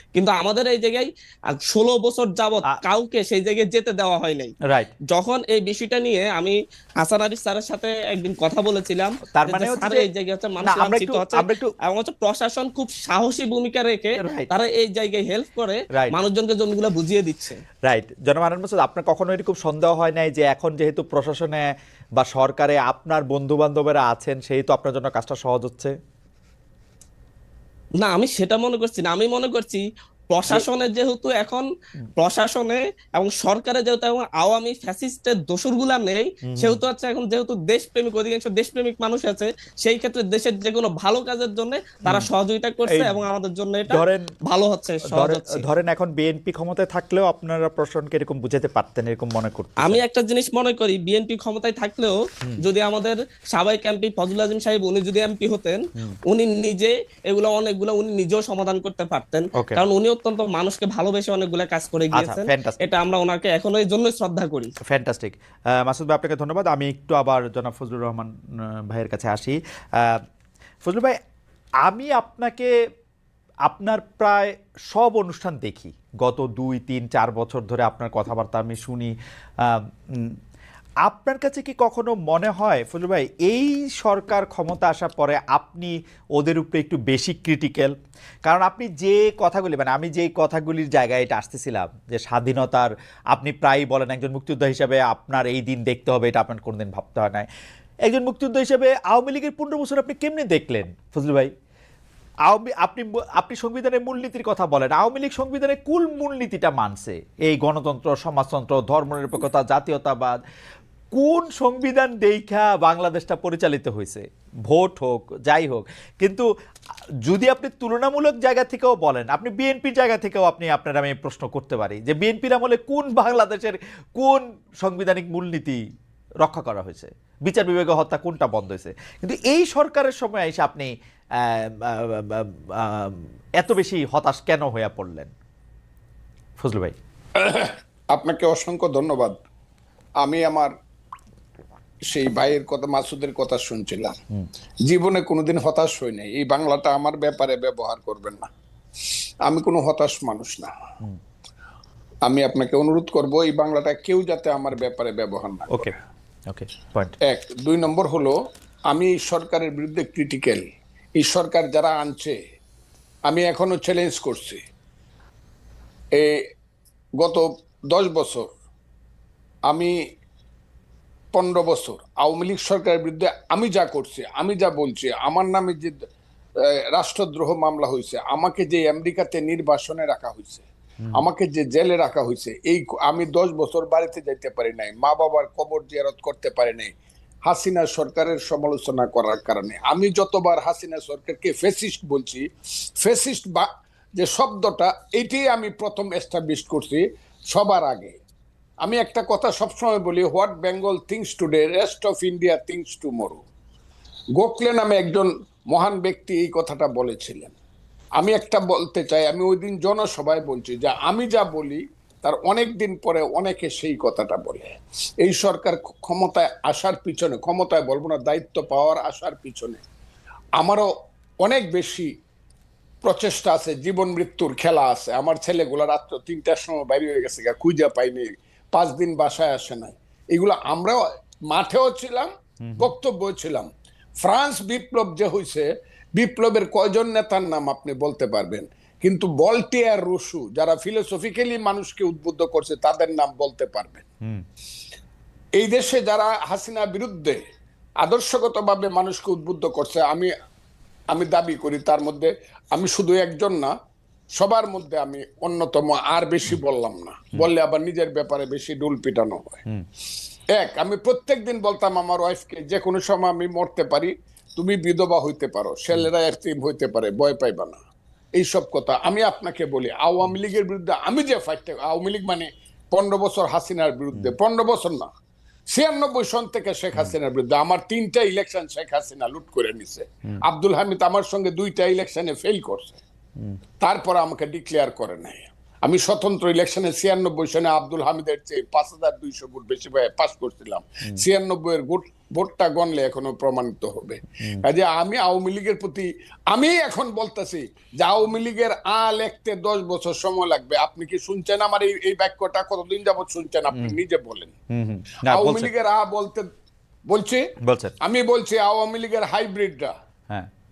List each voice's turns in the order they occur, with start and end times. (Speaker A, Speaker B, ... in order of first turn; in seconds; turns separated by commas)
Speaker A: 0.1-4.5, Speaker B: 4.6-4.9, Speaker A: 5.1-17.6, Speaker B: 9.3-10.1, Speaker B: 10.6-11.7, Speaker B: 14.2-14.5, Speaker B: 17.9-25.9, Speaker A: 28.0-31.6, Speaker A: 32.2-45.6, Speaker B: 36.5-36.8, Speaker B: 42.9-43.2, Speaker B: 43.9-44.3, Speaker B: 45.1-50.0, Speaker A: 49.8-64.7, Speaker B: 59.5-59.8, Speaker B: 62.1-62.8, Speaker B: 64.9-68.3, Speaker B: 68.9-70.2, Speaker B: 70.8-71.2, Speaker B: 71.8-72.7, Speaker B: 73.7-80.4, Speaker B: 81.0-97.5, Speaker B: 98.1-101.5, Speaker B: 102.5-110.4, Speaker B: 111.1-116.5, Speaker B: 117.2-125.8, Speaker B: 126.4-135.3, Speaker B: 136.6-136.9, Speaker C: 137.4-139.4, Speaker C: 140.2-140.7, Speaker C: 142.1-144.2, Speaker C: 144.8-148.5, Speaker C: 149.4-150.7, Speaker C: 152.2-156.0, Speaker B: 156.5-157.1, Speaker C: 157.2-158.3, Speaker C: 158.9-160.7, Speaker C: 161.2-162.4, Speaker C: 163.3-164.6, Speaker C: 166.1-166.4, Speaker C: 167.2-168.5, Speaker C: 169.7-169.9, Speaker C: 171.3-176.0, Speaker C: 176.9-186.9, Speaker C: 187.4-192.4, Speaker C: 193.0-198.2, Speaker C: 198.8-203.4, Speaker C: 204.4-207.5, Speaker C: 208.2-219.8, Speaker C: 220.6-220.9, Speaker C: 221.4-222.1, Speaker C: 223.0-233.7, Speaker B: 232.6-232.9, Speaker C: 234.2-244.1, Speaker C: 245.6-247.4, Speaker C: 248.0-250.3, Speaker C: 251.1-253.7, Speaker C: 254.4-259.6, Speaker C: 260.5-267.8, Speaker C: 268.4-275.1, Speaker C: 275.7-283.0, Speaker C: 283.8-304.5, Speaker B: 304.7-305.7, Speaker C: 305.3-306.5, Speaker C: 307.1-307.4, Speaker B: 307.6-307.9, Speaker C: 308.0-309.9